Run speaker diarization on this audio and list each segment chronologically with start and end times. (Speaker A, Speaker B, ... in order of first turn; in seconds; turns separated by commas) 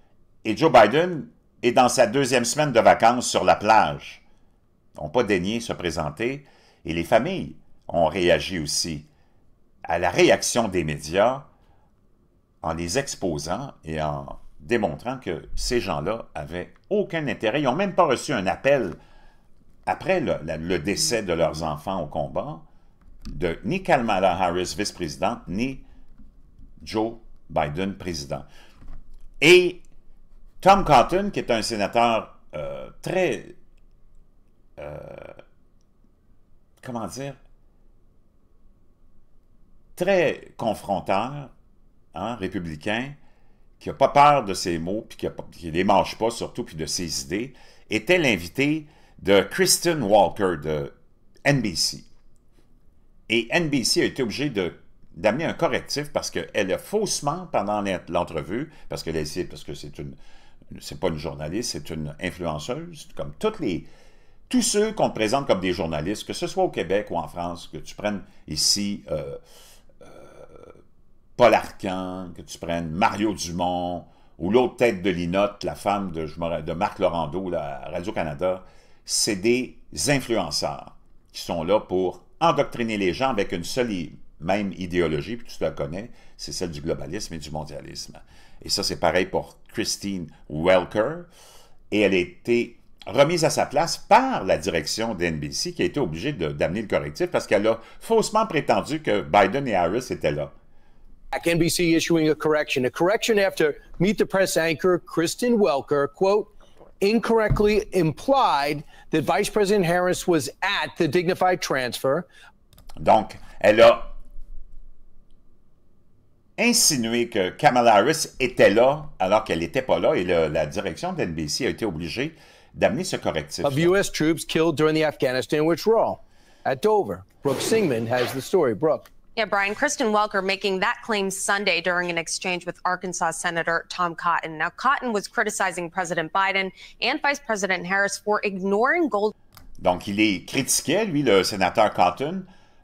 Speaker A: 0.4-4.2, Speaker A: 5.0-9.1, Speaker A: 9.8-11.5, Speaker A: 12.6-19.0, Speaker A: 19.9-22.6, Speaker A: 23.3-25.8, Speaker A: 26.8-28.5, Speaker A: 29.4-29.8, Speaker A: 30.6-33.5, Speaker A: 34.8-35.4, Speaker A: 36.8-37.4, Speaker A: 40.0-41.5, Speaker A: 42.1-43.1, Speaker A: 43.8-50.9, Speaker A: 51.4-52.0, Speaker A: 53.3-60.1, Speaker A: 60.7-63.9, Speaker A: 64.5-69.4, Speaker A: 70.0-70.7, Speaker A: 71.4-91.3, Speaker A: 91.9-100.5, Speaker B: 101.3-112.3, Speaker A: 113.0-114.1, Speaker A: 116.6-123.9, Speaker B: 123.6-129.1, Speaker C: 129.3-139.3, Speaker A: 139.8-142.5